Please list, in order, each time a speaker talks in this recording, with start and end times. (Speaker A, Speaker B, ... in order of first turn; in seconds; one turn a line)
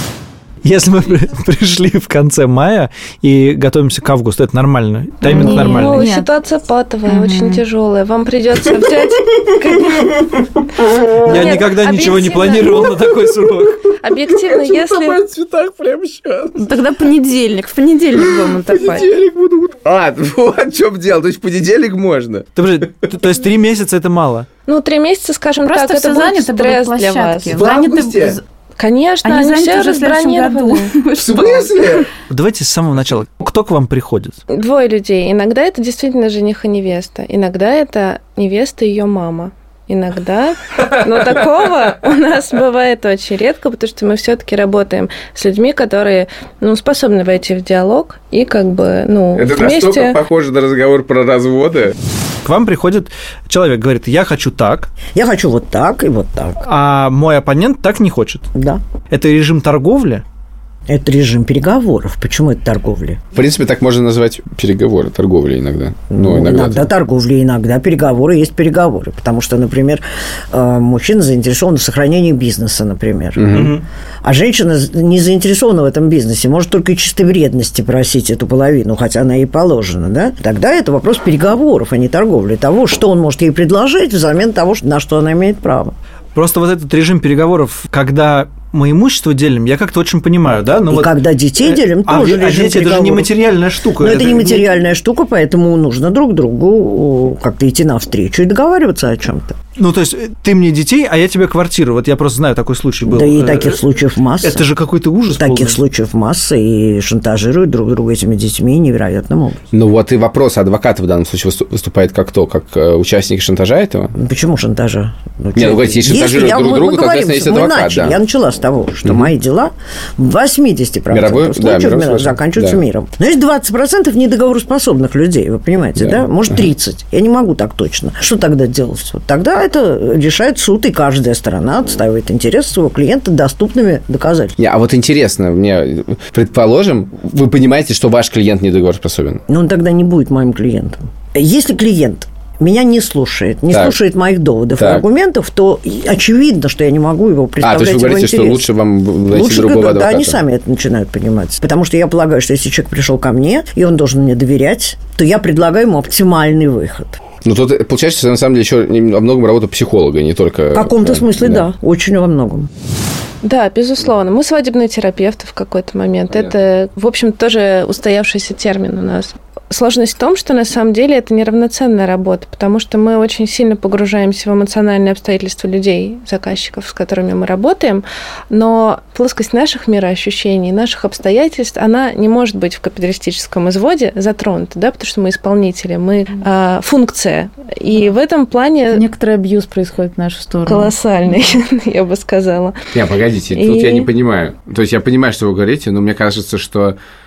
Speaker A: 0.6-6.1
Speaker B: 5.2-6.3
Speaker C: 5.2-10.4
Speaker B: 7.1-7.6
Speaker C: 11.1-12.9
Speaker A: 11.2-13.8
Speaker C: 13.9-15.2
Speaker D: 14.2-16.6
Speaker B: 16.6-19.1
Speaker D: 18.2-22.5
Speaker A: 22.6-24.5
Speaker C: 24.7-27.6
Speaker B: 25.6-28.4
Speaker D: 27.5-28.4
Speaker C: 28.8-31.0
Speaker B: 29.2-32.0
Speaker D: 31.1-32.1
Speaker A: 32.2-34.4
Speaker C: 34.5-50.2
Speaker D: 49.4-52.0
Speaker A: 52.4-54.9
Speaker E: 55.1-56.6
Speaker A: 56.6-58.5
Speaker E: 58.5-58.8
Speaker A: 59.1-60.2
Speaker E: 60.9-63.2
Speaker D: 63.4-66.9
Speaker E: 66.1-86.0
Speaker D: 73.4-73.8
Speaker A: 73.5-73.8
Speaker A: 86.3-91.1
Speaker E: 90.9-93.3
Speaker A: 91.6-94.6
Speaker E: 94.0-99.6
Speaker A: 99.8-103.8
Speaker E: 103.1-104.6
Speaker A: 104.4-105.8
Speaker E: 105.4-109.7
Speaker D: 109.7-114.1
Speaker E: 114.2-134.6
Speaker D: 115.6-118.2
Speaker D: 121.1-122.8
Speaker D: 134.6-139.4
Speaker E: 139.5-148.7
Speaker D: 143.7-144.0
Speaker D: 144.8-145.0
Speaker D: 147.6-150.4
Speaker E: 149.3-157.2
Speaker D: 157.4-161.6
Speaker E: 160.7-162.7
Speaker C: 163.4-189.0
Speaker B: 188.9-190.9
Speaker C: 190.7-192.8
Speaker D: 192.9-197.0
Speaker C: 193.5-194.1